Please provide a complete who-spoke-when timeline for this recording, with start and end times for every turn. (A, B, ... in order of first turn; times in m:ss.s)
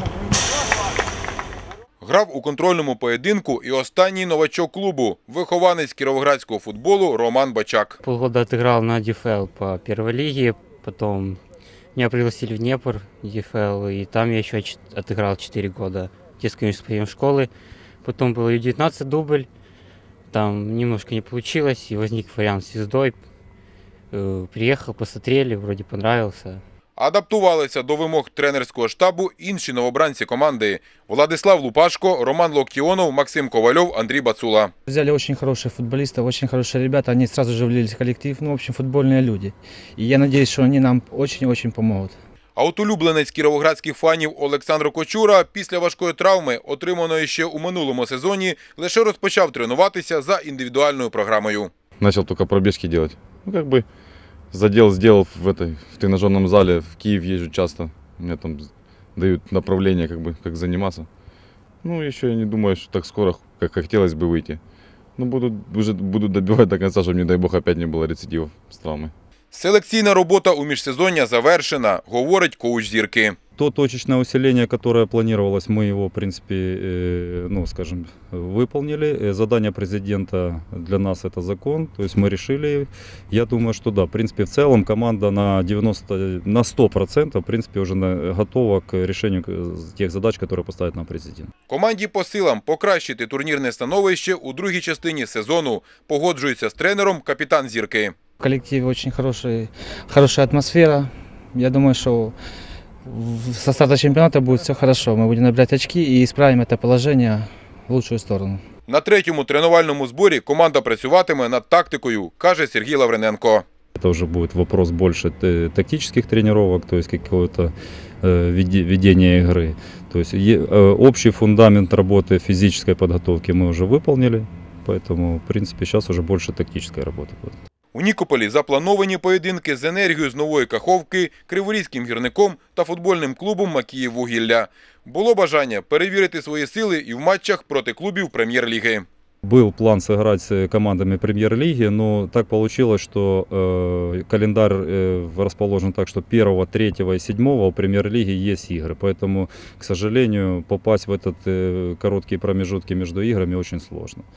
0:02.0-0:08.0 A
0:08.0-0:11.4 B
0:11.9-0:17.5 B
0:18.0-0:19.5 B
0:20.3-0:23.2 B
0:24.1-0:26.6 B
0:27.0-0:34.7 A
0:34.8-0:42.2 C
0:42.6-0:51.7 A
0:52.0-0:53.8 D
0:54.5-1:01.1 D
1:01.8-1:04.6 D
1:05.2-1:09.1 D
1:09.5-1:13.4 A
1:13.6-1:31.5 E
1:31.7-1:38.1 A
1:38.4-1:42.3 C
1:43.0-1:48.6 C
1:48.9-1:53.6 A
1:54.0-2:07.6 E
2:07.9-2:19.0 A
2:19.4-2:34.2 E